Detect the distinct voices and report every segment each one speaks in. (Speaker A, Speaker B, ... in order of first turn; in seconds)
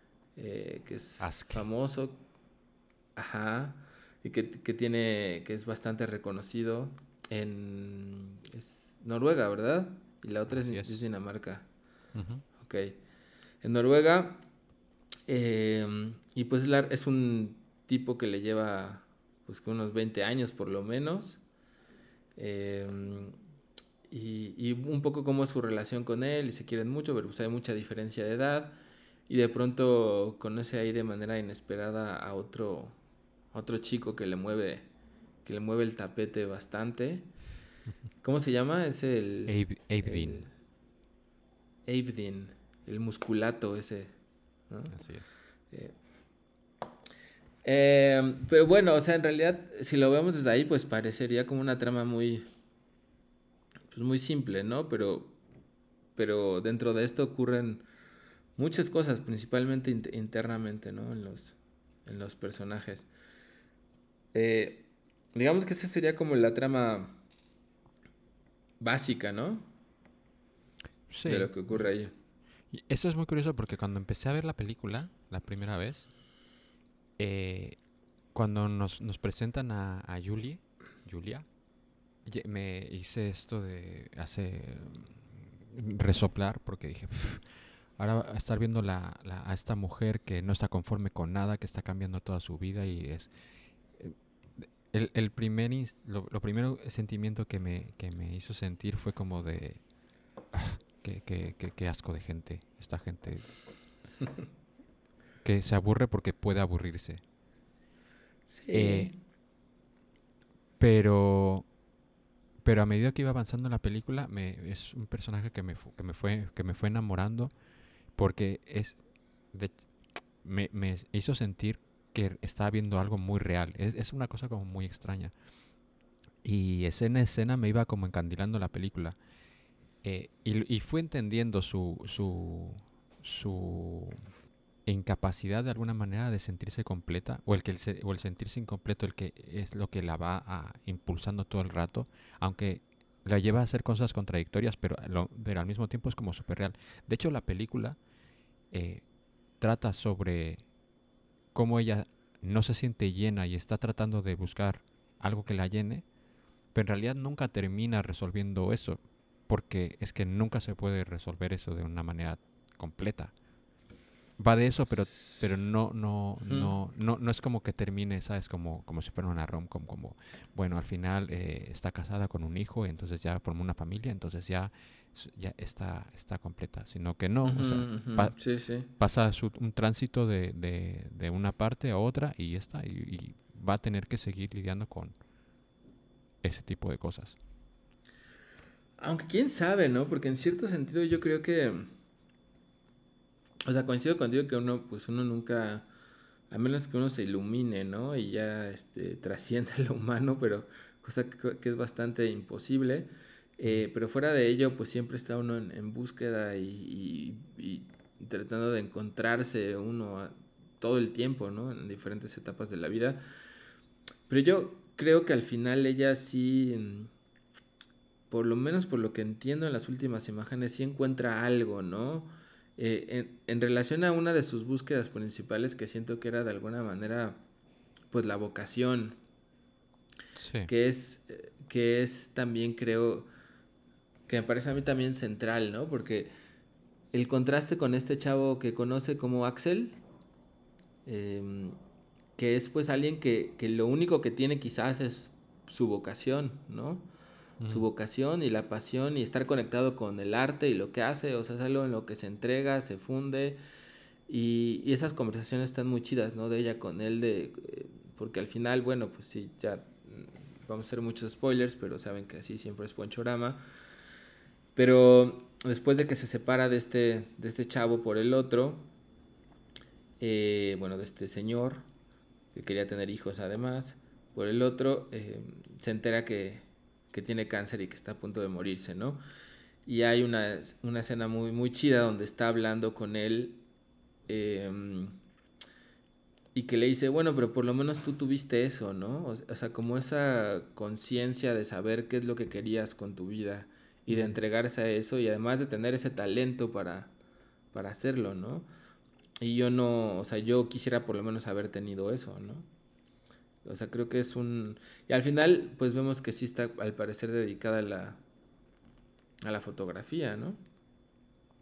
Speaker A: 0.4-2.2, 3.2-11.7, 12.6-13.0, 13.6-14.4, 15.3-21.4, 22.4-23.4, 24.1-28.8, 29.3-33.0, 33.5-34.9, 35.5-37.3, 38.2-40.5, 41.9-44.1, 44.7-45.0, 45.7-46.0, 47.6-52.5, 53.9-55.4, 56.2-57.9, 58.6-63.1, 64.3-67.2, 68.8-69.7, 71.2-72.1, 108.5-109.2, 164.9-165.5, 166.4-166.7, 177.4-178.9, 189.0-191.9, 193.7-195.9, 196.5-213.2, 214.3-217.1, 218.3-227.4, 228.1-229.2, 230.7-233.3, 234.3-236.3, 237.1-240.0, 241.1-241.8, 242.4-247.1, 247.7-253.6, 254.3-263.6, 264.8-268.9, 270.2-271.9, 272.5-279.2, 279.9-283.6, 284.3-285.2, 286.6-297.1, 297.7-298.7, 299.4-302.7, 303.6-308.2, 309.4-310.6
Speaker B: 1.2-1.6, 10.5-11.0, 12.2-12.4, 39.5-40.5, 44.9-45.3, 71.1-71.9, 72.7-76.1, 77.2-77.8, 78.3-81.5, 82.2-93.3, 94.0-99.8, 100.5-103.5, 105.4-107.2, 108.7-109.1, 110.8-111.7, 112.6-117.5, 118.2-119.0, 119.5-119.8, 120.4-125.3, 126.4-129.2, 130.0-134.2, 134.9-148.0, 148.7-149.1, 149.6-150.7, 151.5-156.1, 156.7-163.3, 164.4-185.2, 186.4-187.4, 230.4-230.7, 247.6-247.9, 294.1-294.3